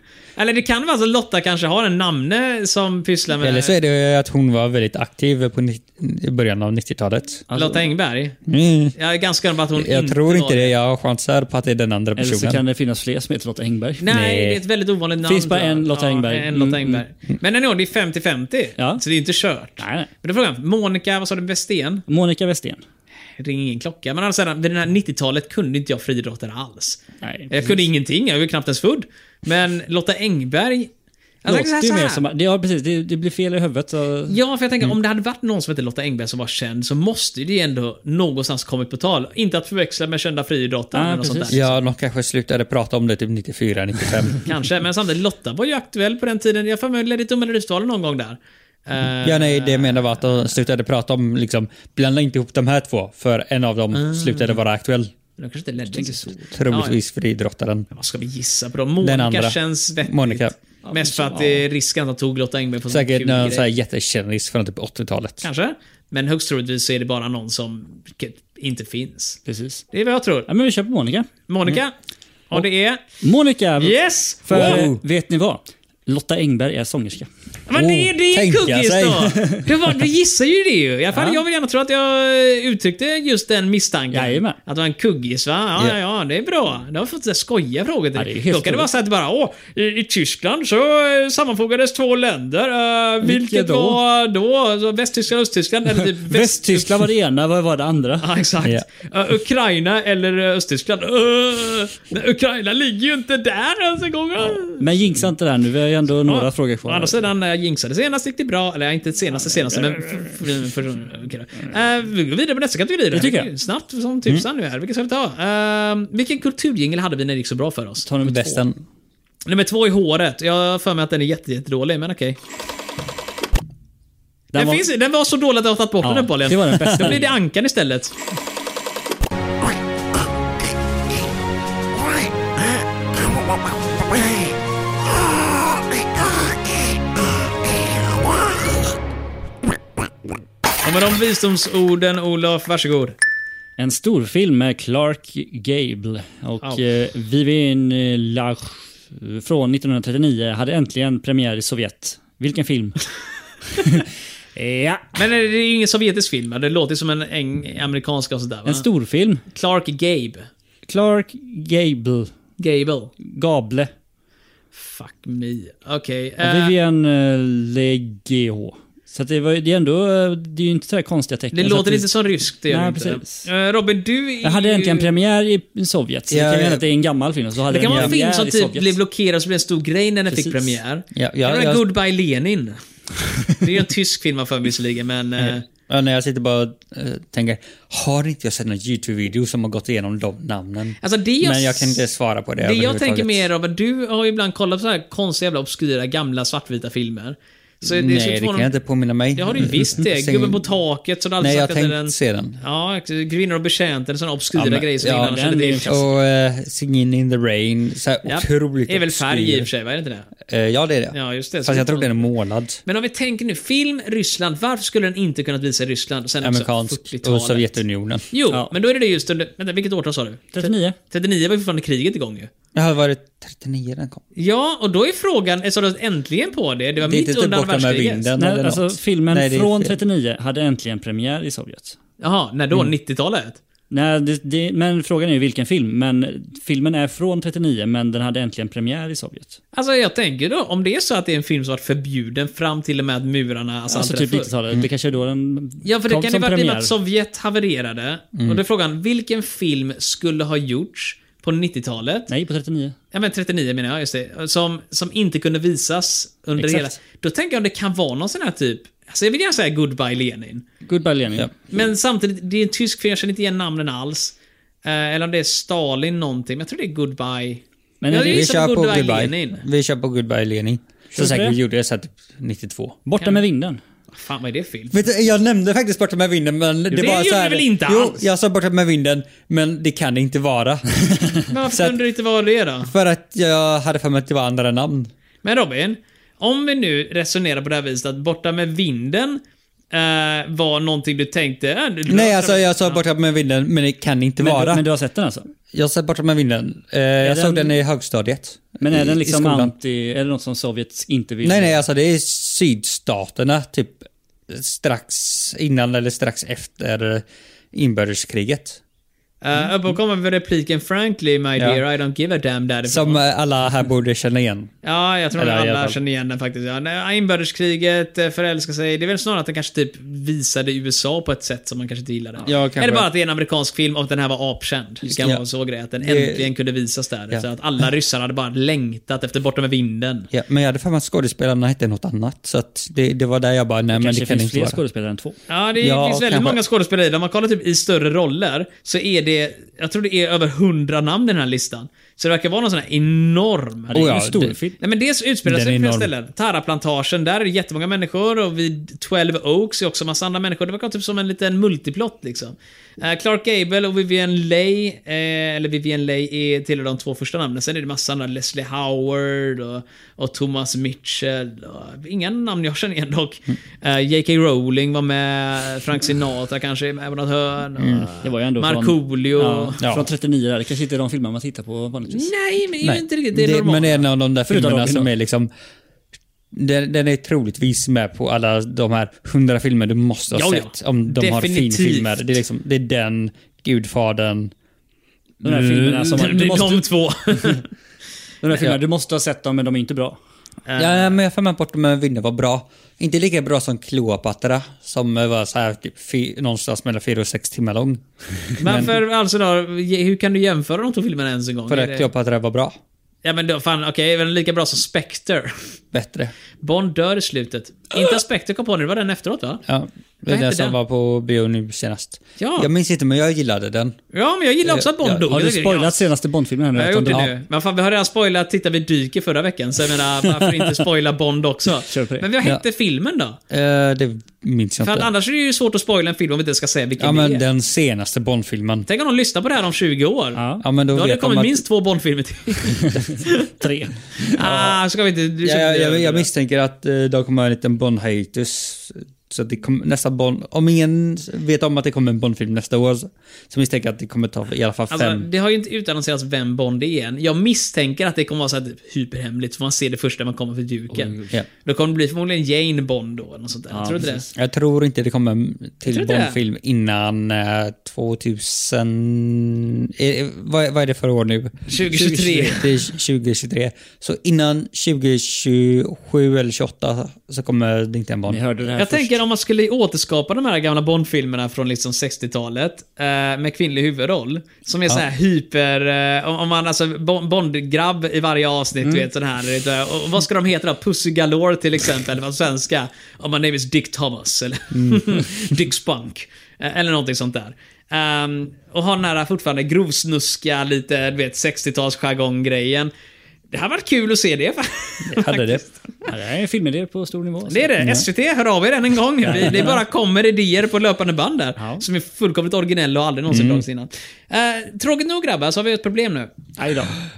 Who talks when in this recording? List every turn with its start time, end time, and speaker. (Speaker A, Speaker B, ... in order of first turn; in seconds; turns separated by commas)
Speaker A: 0.4-3.7, Speaker B: 3.4-7.4, Speaker C: 7.5-7.8, Speaker A: 7.5-8.3, Speaker B: 8.4-8.9, Speaker A: 8.9-10.7, Speaker B: 9.7-12.6, Speaker C: 12.2-14.0, Speaker A: 14.0-22.0, Speaker B: 14.1-14.6, Speaker C: 15.2-17.0, Speaker C: 19.8-20.1, Speaker C: 22.1-22.8, Speaker A: 23.4-30.9, Speaker C: 27.2-27.8, Speaker A: 31.4-32.2, Speaker C: 31.4-34.4, Speaker A: 34.3-41.7, Speaker C: 40.9-41.6, Speaker B: 41.5-44.5, Speaker A: 44.4-50.1, Speaker B: 49.2-55.1, Speaker A: 53.9-54.6, Speaker A: 55.4-57.0, Speaker C: 55.9-56.5, Speaker B: 56.5-57.9, Speaker A: 57.9-63.6, Speaker B: 59.0-60.5, Speaker C: 60.8-61.6, Speaker B: 62.9-65.5, Speaker A: 65.4-69.4, Speaker C: 69.5-69.8, Speaker A: 69.9-70.5, Speaker C: 70.5-71.3, Speaker A: 71.5-71.9, Speaker A: 72.5-73.0, Speaker C: 73.2-77.3, Speaker A: 73.8-74.9, Speaker B: 74.5-75.0, Speaker A: 77.7-97.0, Speaker B: 77.7-79.3, Speaker C: 81.1-81.4, Speaker C: 84.1-84.6, Speaker C: 88.1-88.9, Speaker C: 93.2-94.0, Speaker C: 96.0-98.4, Speaker A: 98.2-104.9, Speaker C: 104.8-107.3, Speaker A: 106.2-118.0, Speaker C: 109.5-110.4, Speaker C: 113.1-113.5, Speaker C: 118.0-118.6, Speaker B: 118.2-118.8, Speaker A: 119.5-122.4, Speaker C: 124.5-124.8, Speaker A: 124.5-128.1, Speaker C: 126.0-127.3, Speaker A: 140.8-143.2, Speaker C: 143.8-153.0, Speaker C: 153.7-155.1, Speaker A: 155.1-158.8, Speaker C: 158.7-159.4, Speaker A: 159.5-160.5, Speaker C: 160.9-162.3, Speaker A: 162.6-163.1, Speaker C: 163.2-163.9, Speaker A: 164.7-166.7, Speaker C: 166.4-172.1, Speaker A: 171.5-175.1, Speaker C: 172.7-173.4, Speaker C: 174.4-178.9, Speaker B: 176.3-176.8, Speaker A: 177.7-182.8, Speaker B: 177.9-178.1, Speaker C: 180.3-180.8, Speaker B: 181.1-181.8, Speaker A: 183.5-185.6, Speaker B: 185.9-193.5, Speaker A: 191.0-192.0, Speaker A: 192.6-198.7, Speaker B: 197.8-200.6, Speaker A: 199.3-206.0, Speaker B: 201.4-202.6, Speaker B: 204.5-209.7, Speaker C: 205.0-206.1, Speaker A: 208.2-210.3, Speaker B: 210.4-212.8, Speaker A: 211.1-212.2, Speaker A: 212.8-217.8, Speaker B: 216.4-218.2, Speaker A: 218.3-222.5, Speaker C: 220.5-220.9, Speaker B: 222.7-224.2, Speaker A: 224.3-228.3, Speaker B: 227.0-229.9, Speaker C: 228.4-232.0, Speaker A: 232.2-233.6, Speaker C: 233.9-239.6, Speaker A: 239.7-244.5, Speaker C: 243.9-246.9, Speaker A: 245.8-252.3, Speaker B: 248.3-248.6, Speaker C: 252.3-252.9, Speaker A: 253.1-260.6, Speaker C: 256.6-256.9, Speaker C: 260.8-261.5, Speaker A: 261.7-269.6, Speaker C: 268.0-268.5, Speaker B: 268.2-273.0, Speaker C: 271.1-271.6, Speaker C: 273.1-273.8, Speaker A: 274.1-275.0, Speaker B: 274.9-280.9, Speaker A: 276.9-278.2, Speaker A: 281.5-282.9, Speaker B: 281.7-282.0, Speaker B: 282.9-285.1, Speaker A: 285.4-293.0, Speaker B: 292.1-294.8, Speaker C: 294.4-295.5, Speaker B: 295.7-299.7, Speaker C: 297.2-297.7, Speaker C: 298.8-301.8, Speaker B: 301.4-308.8, Speaker A: 309.4-313.2, Speaker B: 312.9-314.7, Speaker A: 314.8-330.3, Speaker B: 315.3-316.0, Speaker B: 322.4-323.1, Speaker B: 325.0-325.4, Speaker B: 326.0-326.5, Speaker B: 330.3-334.8, Speaker C: 333.9-335.4, Speaker A: 335.5-344.1, Speaker B: 335.8-336.6, Speaker C: 343.9-344.8, Speaker B: 343.9-344.6, Speaker A: 344.8-369.8, Speaker B: 345.4-346.1, Speaker B: 367.8-368.1, Speaker C: 368.2-372.3, Speaker B: 369.8-370.1, Speaker A: 372.1-374.1, Speaker B: 372.8-375.5, Speaker C: 374.5-375.1, Speaker B: 376.5-384.5, Speaker A: 380.3-382.1, Speaker C: 385.4-386.9, Speaker A: 385.5-387.7, Speaker C: 388.4-390.2, Speaker A: 390.7-391.2, Speaker B: 390.8-398.0, Speaker B: 398.5-398.9, Speaker A: 398.6-402.1, Speaker B: 401.7-402.7, Speaker A: 403.2-405.7, Speaker B: 405.9-406.3, Speaker A: 406.6-409.6, Speaker B: 409.6-414.0, Speaker A: 410.3-410.8, Speaker A: 412.4-412.7, Speaker A: 414.1-416.1, Speaker B: 414.6-415.2, Speaker C: 415.3-417.3, Speaker A: 416.7-423.4, Speaker C: 421.9-422.3, Speaker B: 423.5-425.1, Speaker A: 424.8-427.4, Speaker B: 427.0-428.9, Speaker A: 428.9-430.4, Speaker C: 430.4-430.6, Speaker B: 430.6-431.6, Speaker A: 430.9-433.5, Speaker C: 432.8-433.9, Speaker A: 434.2-436.3, Speaker B: 434.4-434.8, Speaker B: 435.4-445.3, Speaker A: 444.9-454.2, Speaker C: 450.9-451.3, Speaker C: 453.7-454.2, Speaker B: 454.3-461.6, Speaker A: 455.9-456.4, Speaker A: 461.7-462.6, Speaker C: 461.9-462.6, Speaker B: 462.5-468.4, Speaker C: 468.3-469.2, Speaker A: 468.8-492.9, Speaker B: 484.7-485.1, Speaker A: 493.5-496.1, Speaker B: 495.0-495.6, Speaker C: 496.1-497.8, Speaker A: 497.5-506.3, Speaker C: 499.2-499.8, Speaker C: 501.6-501.8, Speaker B: 503.3-503.6, Speaker C: 506.6-507.0